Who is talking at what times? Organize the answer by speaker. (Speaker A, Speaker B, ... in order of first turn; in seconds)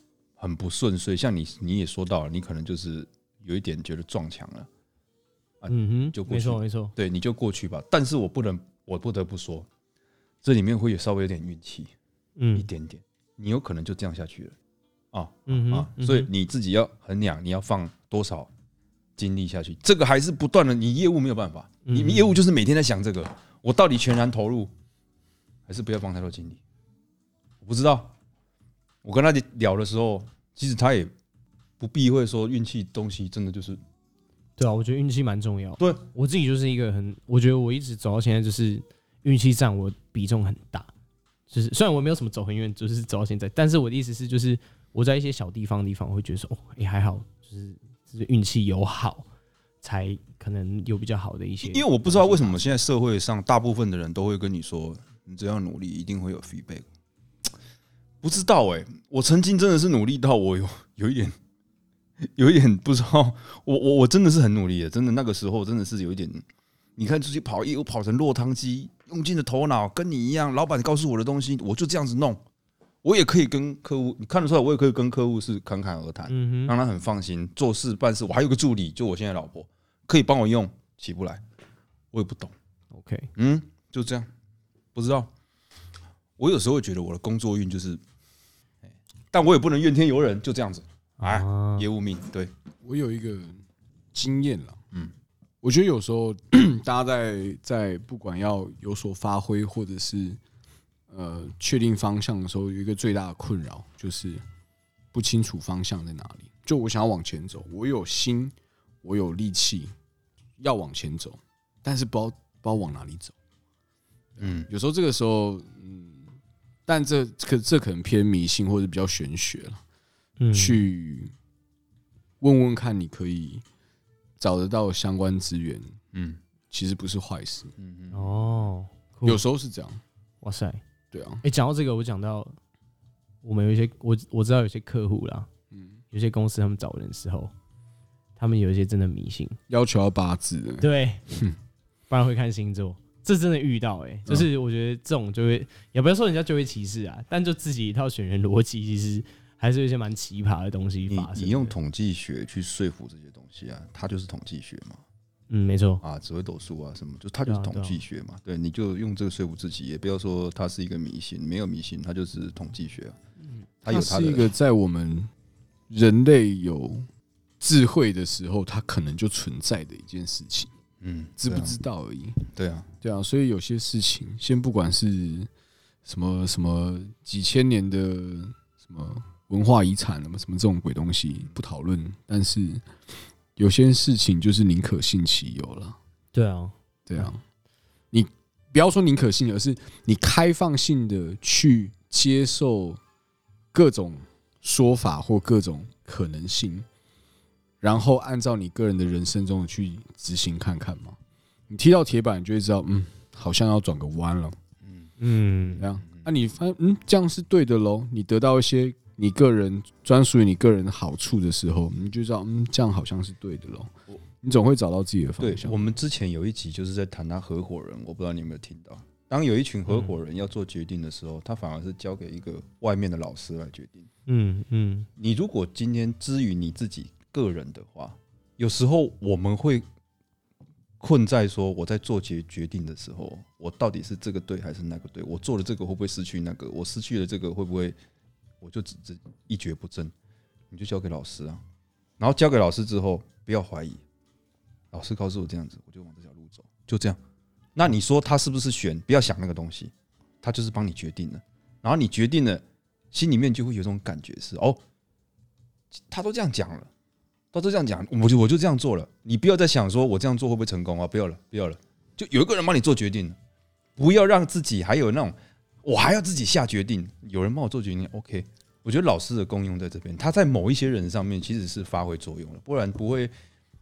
Speaker A: 0.4-4.7, 5.6-9.7, 10.4-11.9, 12.6-14.6, 15.1-18.5, 19.2-24.7, 25.7-26.6, 27.6-28.1, 29.0-31.1, 31.8-33.8, 51.6-56.9, 58.2-61.4, 62.2-66.5, 67.0-72.4, 73.0-81.4, 82.1-82.5, 83.4-84.3, 85.0-85.3, 86.4-88.0, 89.3-92.5, 114.4-114.7, 126.1-126.4, 127.8-128.5, 151.1-155.0, 156.0-163.2, 163.8-164.5, 171.0-171.8, 172.5-172.9, 204.8-205.1, 215.4-224.1, 225.2-229.9, 231.0-238.0, 238.6-240.1, 240.7-241.6, 242.2-244.0, 244.9-247.2, 247.8-254.8, 256.1-256.9, 257.5-263.4, 264.0-273.3
Speaker B: 5.7-6.9, 12.4-12.7, 15.5-16.3, 21.9-22.4, 34.6-40.9, 41.5-49.3, 49.8-52.6, 76.3-76.8, 82.9-83.3, 91.2-91.8, 120.4-120.8, 128.1-129.4, 130.4-130.8, 131.4-132.6, 133.4-135.5, 136.1-137.5, 138.4-139.6, 140.8-141.2, 142.1-151.8, 155.5-156.0, 157.5-158.0, 186.3-187.3, 205.2-205.8, 224.3-225.1
Speaker C: 92.8-93.6, 94.1-94.8, 95.6-100.4, 101.1-104.4, 105.1-109.9, 110.6-113.3, 114.4-116.3, 116.9-119.8, 120.5-121.3, 122.4-123.6, 124.4-126.0, 126.7-127.7, 129.2-130.0, 131.1-131.4, 135.7-136.0, 139.7-141.6, 163.9-165.3, 165.9-167.1, 167.6-170.7, 171.4-172.4, 173.0-175.5, 176.1-182.9, 183.6-186.0, 187.1-187.4, 188.1-193.0, 193.7-196.8, 197.8-201.2, 201.7-204.6, 205.8-215.8